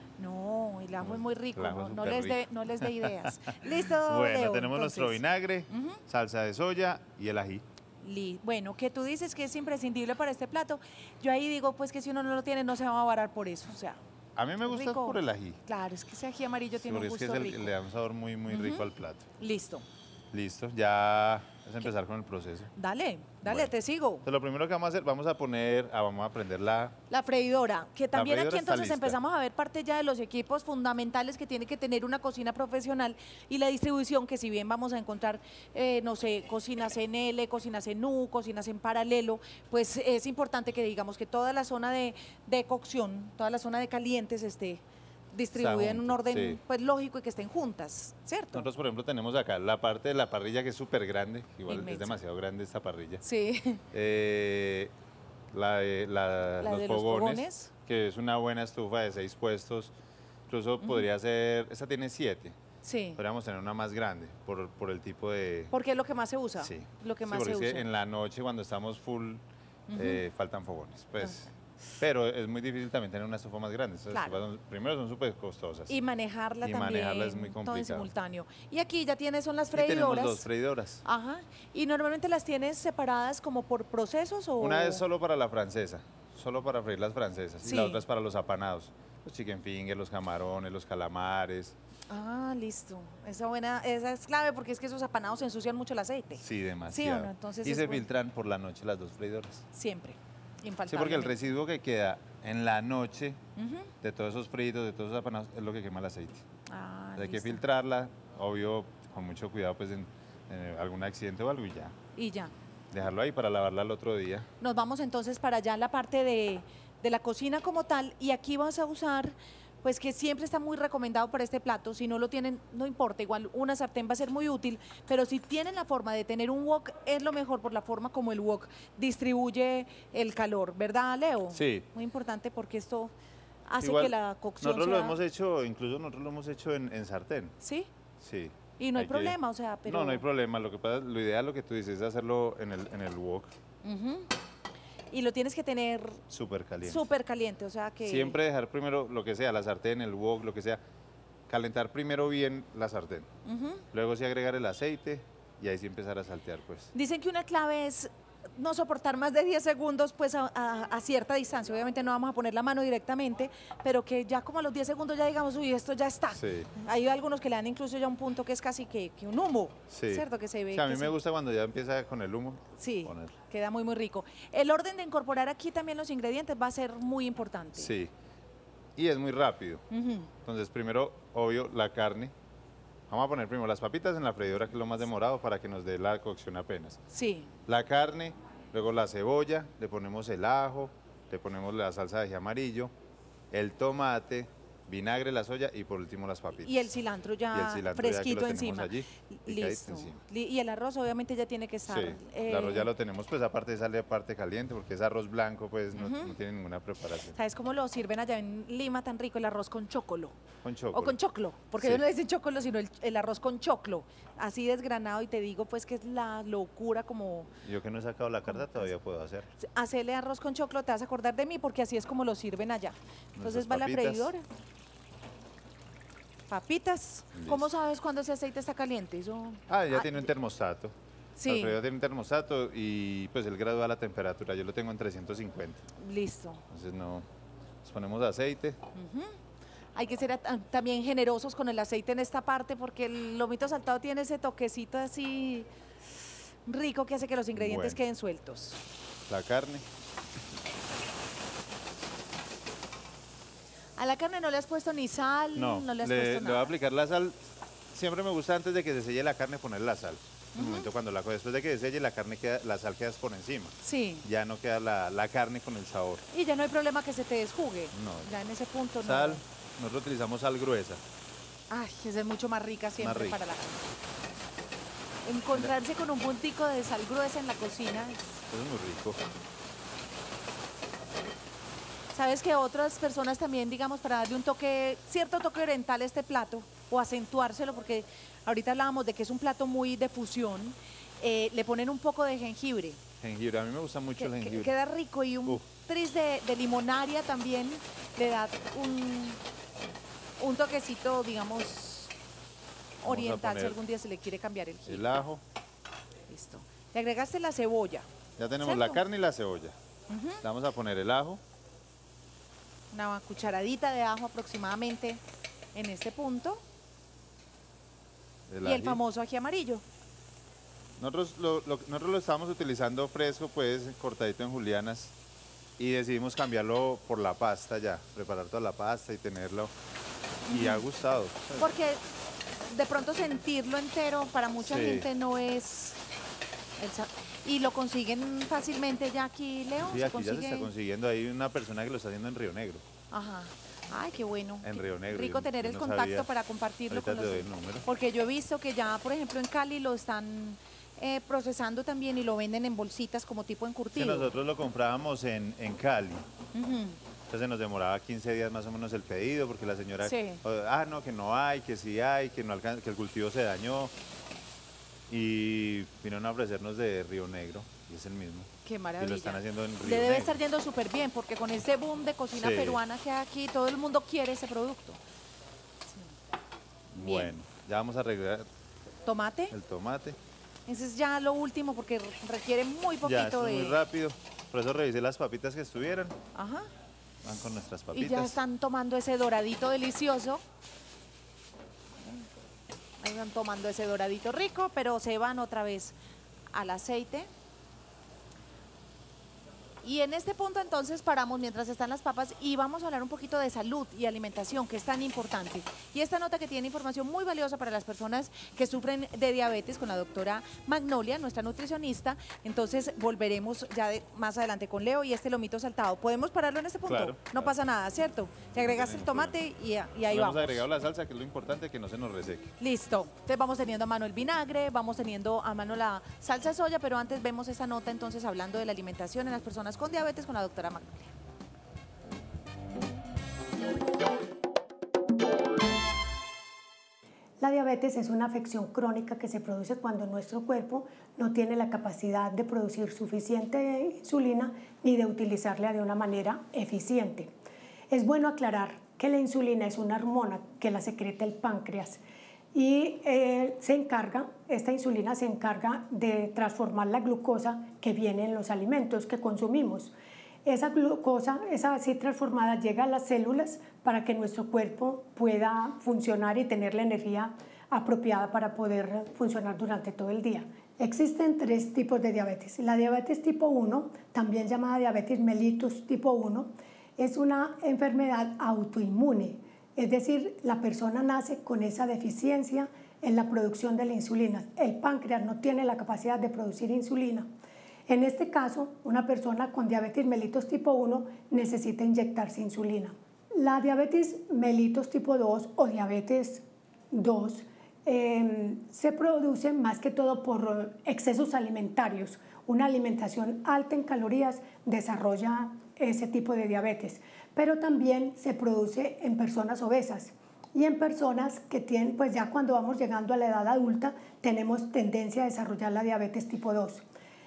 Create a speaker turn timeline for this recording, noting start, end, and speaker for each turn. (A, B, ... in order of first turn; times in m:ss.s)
0:00.2-0:06.0 A
0:01.0-0:03.2 B
0:04.0-0:07.6 B
0:08.0-0:14.0 A
0:14.4-0:15.6 B
0:14.6-0:17.7 A
0:16.8-0:19.2 B
0:18.5-0:18.9 A
0:19.4-0:19.8 A
0:20.3-0:22.7 B
0:22.8-0:24.2 A
0:23.4-0:23.7 B
0:24.2-0:27.0 B
0:27.1-0:48.7 A
0:28.1-0:29.2 B
0:45.5-0:46.6 B
0:48.5-0:53.2 B
0:51.7-0:52.2 A
0:53.2-0:53.8 A
0:53.9-0:54.9 B
0:55.5-0:59.9 B
0:56.6-0:57.7 A
1:00.5-1:02.6 B
1:00.8-1:01.1 A
1:02.8-1:03.2 A
1:03.2-1:05.7 B
1:05.7-1:07.9 A
1:06.6-1:09.4 B
1:09.9-1:10.2 A
1:09.9-1:16.0 B
1:14.1-1:14.4 A
1:15.9-1:20.4 A
1:16.6-1:18.1 B
1:19.7-1:21.0 B
1:21.0-1:25.0 A
1:24.6-1:31.8 B
1:27.6-1:28.0 A
1:32.1-1:38.0 A
1:36.4-1:39.6 B
1:39.7-1:41.4 A
1:40.9-1:43.4 B
1:43.6-1:43.9 A
1:44.0-1:46.4 B
1:46.7-1:47.6 A
1:47.2-1:51.9 B
1:52.2-1:52.5 A
1:52.9-1:54.5 B
1:54.6-2:13.1 A
2:11.5-2:11.8 B
2:13.6-2:15.2 A
2:13.8-2:17.6 B
2:17.6-2:17.9 A
2:18.2-2:23.5 B
2:18.8-2:20.2 A
2:23.8-2:24.3 A
2:25.1-2:26.2 A
2:26.3-2:27.1 B
2:26.8-2:28.4 A
2:28.0-2:30.8 B
2:31.5-2:33.3 B
2:33.4-2:33.8 A
2:33.9-2:36.9 B
2:36.9-2:51.1 A
2:46.3-2:46.7 B
2:49.9-2:53.3 B
2:52.8-2:57.9 A
2:57.8-2:58.1 B
2:59.0-2:59.8 B
2:59.9-3:00.3 A
3:00.4-3:02.3 B
3:03.1-3:07.0 B
3:07.1-3:07.5 A
3:07.7-3:12.9 B
3:13.5-3:16.8 B
3:16.6-3:22.9 A
3:17.5-3:20.2 B
3:21.8-3:27.4 B
3:26.0-3:26.4 A
3:27.3-3:30.4 A
3:30.6-3:31.2 B
3:30.9-3:37.5 A
3:31.8-3:32.0 B
3:37.6-3:39.5 B
3:38.5-3:38.9 A
3:39.6-3:44.4 A
3:43.4-3:44.3 B
3:46.5-3:50.3 A
3:47.3-3:47.7 B
3:49.7-3:50.9 B
3:51.4-3:51.8 A
3:51.4-3:55.8 B
3:56.0-3:56.6 A
3:56.7-3:57.2 B
3:57.8-3:58.8 B
3:58.9-3:59.4 A
3:59.9-4:05.7 A
4:06.6-4:08.8 A
4:07.5-4:08.0 B
4:09.3-4:09.9 B
4:14.0-4:16.7 A
4:15.5-4:17.4 B
4:17.9-4:26.2 B
4:20.5-4:20.9 A
4:23.8-4:24.2 A
4:26.3-4:29.4 A
4:27.9-4:28.3 B
4:29.0-4:31.0 B
4:31.7-4:33.9 A
4:33.0-4:33.4 B
4:35.2-4:38.2 A
4:38.5-4:39.2 B
4:42.1-4:53.0 A
4:53.2-4:54.7 B
4:54.2-4:59.4 A
5:00.4-5:02.1 A
5:03.0-5:03.8 B
5:03.0-5:05.2 A
5:04.8-5:05.4 B
5:06.3-5:08.1 A
5:08.4-5:09.8 B
5:08.6-5:09.0 A
5:10.1-5:10.4 A
5:10.4-5:11.4 B
5:12.9-5:15.2 A
5:15.7-5:16.6 A
5:18.5-5:19.0 B
5:18.6-5:19.8 A
5:21.0-5:25.1 B
5:25.8-5:29.7 B
5:30.5-5:31.7 B
5:30.5-5:30.8 A
5:31.6-5:32.0 A
5:32.7-5:36.0 A
5:34.6-5:35.1 B
5:36.8-5:40.7 A
5:39.9-5:42.8 B
5:43.1-5:54.3 A
5:44.6-5:46.3 B
5:46.9-5:47.8 B
5:53.9-5:56.2 B
5:56.5-5:57.0 A
5:57.3-6:03.9 B
6:00.0-6:00.4 A
6:05.1-6:10.4 B
6:08.6-6:15.0 A
6:12.3-6:12.8 B
6:16.9-6:18.5 B
6:17.0-6:17.3 A
6:19.0-6:19.5 A
6:19.5-6:20.2 B
6:20.7-6:23.8 A
6:23.0-6:26.2 B
6:26.3-6:26.7 A
6:27.2-6:28.4 B
6:27.9-6:30.4 A
6:33.0-6:36.0 A
6:36.5-6:37.3 A
6:39.8-7:00.6 A
6:56.9-6:57.5 B
6:58.6-6:59.3 B
7:00.1-7:02.5 B
7:02.6-7:11.1 A
7:17.4-7:27.3 C
7:27.9-7:32.0 C
7:32.5-7:39.9 C
7:40.4-8:07.3 C
8:07.9-8:36.8 C